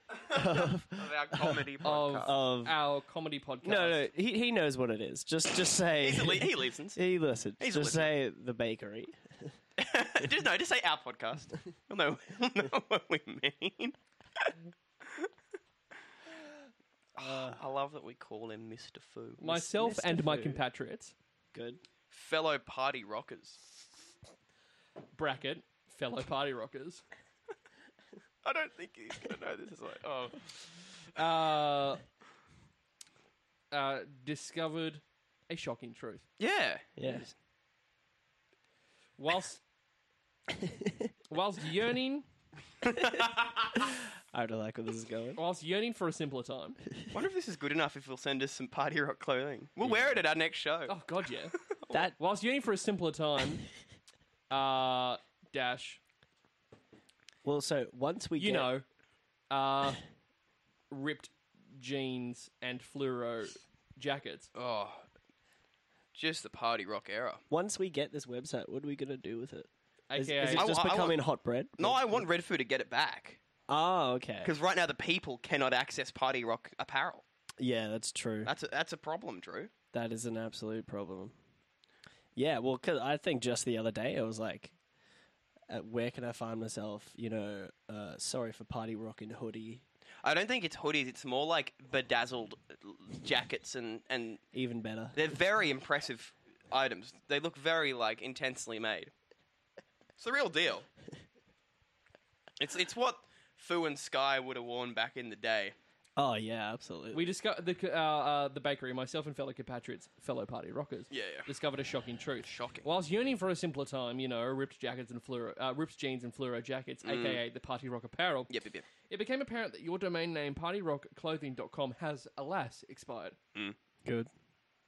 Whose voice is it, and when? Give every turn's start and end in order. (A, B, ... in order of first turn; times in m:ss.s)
0:00.3-0:02.4 A
0:00.3-0:02.8 B
0:01.8-0:04.1 C
0:03.6-0:09.5 B
0:06.0-0:07.0 A
0:07.6-0:08.1 A
0:09.8-0:14.6 A
0:17.2-0:19.6 A
0:17.2-0:17.6 B
0:19.4-0:21.2 C
0:19.5-0:20.6 B
0:21.5-0:21.8 B
0:22.1-0:23.6 A
0:25.2-0:27.0 C
0:28.4-0:30.5 A
0:31.2-0:32.0 C
0:33.7-0:36.3 C
0:36.4-0:36.8 A
0:37.0-0:37.3 B
0:39.2-0:39.6 C
0:41.3-0:42.3 C
0:42.8-0:43.7 A
0:43.8-0:45.4 B
0:45.4-0:46.8 C
0:47.1-0:51.0 A
0:50.9-0:51.5 C
0:51.9-0:52.2 B
0:52.2-0:53.6 C
0:54.5-0:56.0 C
0:57.4-0:58.7 B
0:58.4-0:58.8 C
0:59.5-1:00.0 C
1:00.9-1:04.5 C
1:04.6-1:05.0 A
1:06.2-1:07.4 A
1:07.5-1:12.2 B
1:10.1-1:10.8 C
1:10.5-1:11.2 A
1:11.8-1:13.4 A
1:13.7-1:14.6 B
1:14.4-1:17.2 A
1:17.6-1:18.5 B
1:18.4-1:19.7 A
1:19.9-1:21.3 B
1:22.4-1:24.8 B
1:25.7-1:29.8 B
1:30.2-1:34.4 A
1:34.5-1:35.2 B
1:35.1-1:39.1 A
1:40.2-1:40.9 A
1:42.6-1:45.8 A
1:46.2-1:47.3 B
1:47.1-1:58.5 C
1:51.1-1:51.5 A
1:52.5-1:52.9 A
1:57.0-1:57.4 A
1:58.5-1:58.9 A
1:59.1-2:03.4 C
2:04.0-2:04.3 B